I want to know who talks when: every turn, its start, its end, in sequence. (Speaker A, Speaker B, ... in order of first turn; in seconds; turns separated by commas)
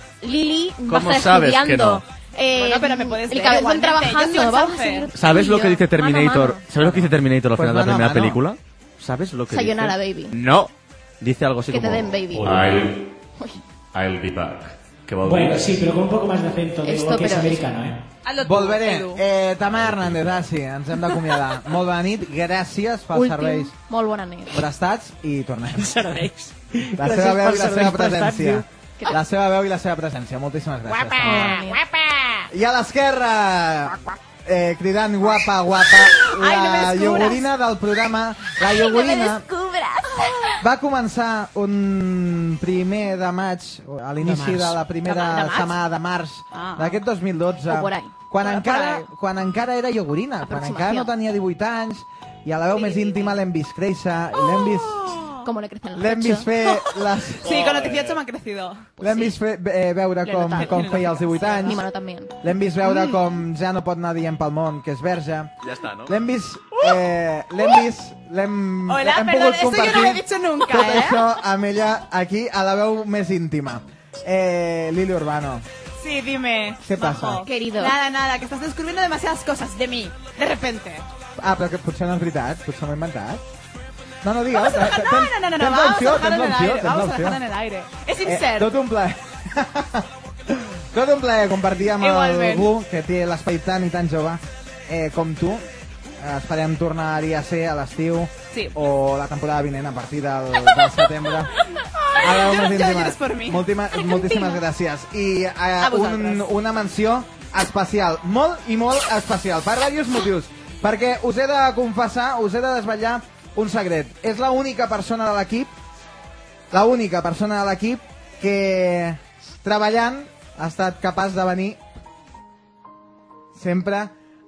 Speaker A: 0.2-6.6, Speaker B: 0.9-2.0, Speaker C: 2.5-5.1, Speaker B: 5.1-13.1, Speaker D: 6.8-8.4, Speaker A: 9.5-10.3, Speaker A: 11.7-12.8, Speaker B: 13.9-15.8, Speaker E: 15.2-18.0, Speaker A: 16.8-17.7, Speaker C: 18.2-19.2, Speaker D: 18.4-23.7, Speaker B: 19.8-20.3, Speaker A: 23.1-24.6, Speaker D: 24.5-25.9, Speaker E: 25.7-28.6, Speaker D: 26.9-31.6, Speaker A: 31.2-31.8, Speaker E: 31.2-32.1, Speaker D: 32.5-39.4, Speaker C: 36.2-37.5, Speaker A: 39.0-40.2, Speaker D: 40.6-55.1, Speaker E: 44.2-44.8, Speaker C: 45.0-45.7, Speaker C: 46.5-47.0, Speaker A: 47.7-48.1, Speaker C: 48.4-49.1, Speaker A: 50.5-51.1, Speaker C: 52.7-53.4, Speaker C: 54.5-55.4, Speaker A: 55.4-56.5, Speaker D: 55.9-57.6, Speaker C: 57.4-58.9, Speaker B: 57.4-58.2, Speaker A: 59.0-59.3, Speaker D: 59.0-61.8, Speaker A: 60.2-61.0, Speaker C: 60.5-61.8, Speaker A: 61.6-62.3, Speaker D: 62.4-65.5, Speaker B: 65.6-66.1, Speaker D: 66.1-75.7, Speaker C: 68.9-71.3, Speaker C: 76.0-81.0, Speaker D: 76.8-77.4, Speaker A: 77.4-78.0, Speaker D: 81.4-83.4, Speaker D: 84.2-87.4, Speaker C: 84.5-88.7, Speaker D: 88.2-95.6, Speaker C: 92.0-92.7, Speaker D: 96.2-101.5, Speaker C: 101.8-104.6, Speaker D: 102.2-115.7, Speaker C: 105.8-106.5, Speaker D: 116.7-121.8, Speaker D: 123.5-124.1